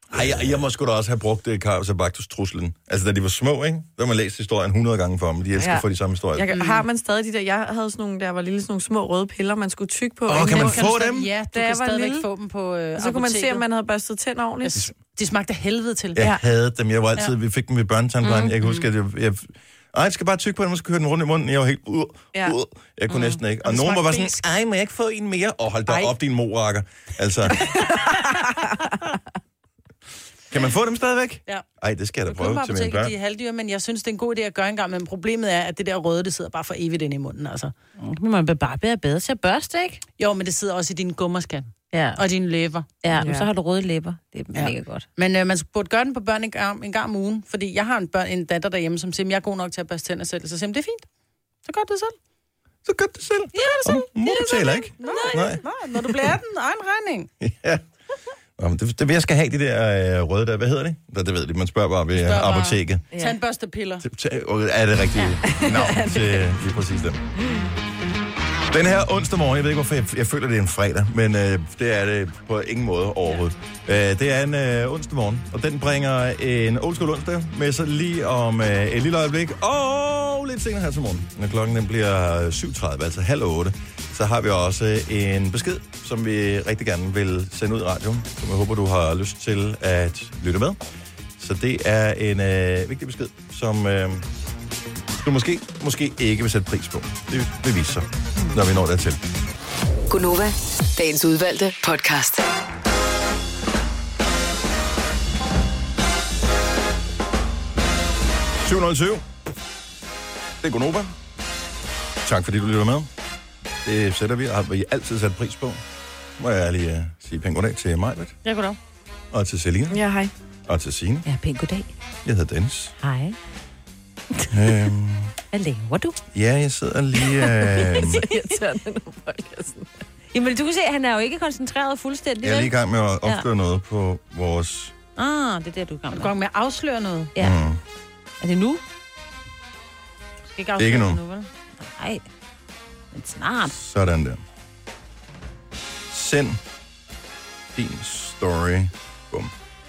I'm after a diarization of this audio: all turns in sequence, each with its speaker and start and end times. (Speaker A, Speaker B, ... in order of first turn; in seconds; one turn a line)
Speaker A: 0.1-6.5
Speaker B: 5.6-5.8
Speaker B: 6.3-12.3
Speaker C: 6.5-6.8
Speaker A: 10.3-11.3
Speaker C: 10.3-13.6
Speaker B: 12.9-14.8
Speaker C: 14.6-16.2
Speaker A: 16.1-27.6
Speaker D: 18.2-18.8
Speaker D: 23.1-23.4
Speaker C: 23.6-24.4
Speaker B: 25.9-26.1
Speaker A: 30.5-33.1
Speaker C: 32.3-37.7
Speaker D: 38.0-40.0
Speaker C: 40.2-42.9
Speaker D: 41.9-42.2
Speaker D: 43.0-45.1
Speaker B: 43.1-43.5
Speaker C: 44.5-51.1
Speaker C: 51.6-52.1
Speaker A: 52.8-55.6
Speaker D: 53.5-55.6
Speaker C: 55.0-57.3
Speaker A: 57.4-57.8
Speaker A: 58.6-63.1
Speaker C: 62.1-64.0
Speaker A: 64.0-67.2
Speaker B: 65.5-66.3
Speaker A: 68.7-90.8
Speaker A: 91.4-94.2
Speaker A: 95.2-99.2
Speaker E: 100.1-102.4
Speaker A: 108.6-109.2
Speaker A: 110.6-111.1
Speaker A: 112.2-113.1
Speaker A: 113.8-115.8
Speaker A: 116.4-118.3
Speaker C: 118.4-118.8
Speaker A: 119.3-120.0
Speaker B: 119.9-120.3
Speaker A: 120.7-121.2
Speaker D: 121.2-121.9
Speaker A: 122.2-122.9
Speaker D: 123.0-123.3
Speaker A: 124.5-125.3
Speaker D: 125.5-126.2
Speaker A: 126.3-128.2
Speaker B: 127.9-129.8
Speaker D: 130.3-133.4
Speaker A: 132.4-134.9
Speaker D: 135.2-136.3
Speaker C: 136.1-137.3
Speaker A: 137.4-137.8
Speaker D: 138.4-138.8
Speaker C: 140.5-141.5
Speaker A: 140.8-141.2
Speaker D: 141.8-142.2
Speaker D: 143.1-143.7
Speaker A: 143.7-144.4
Speaker A: 146.1-146.6
Speaker A: 147.7-149.5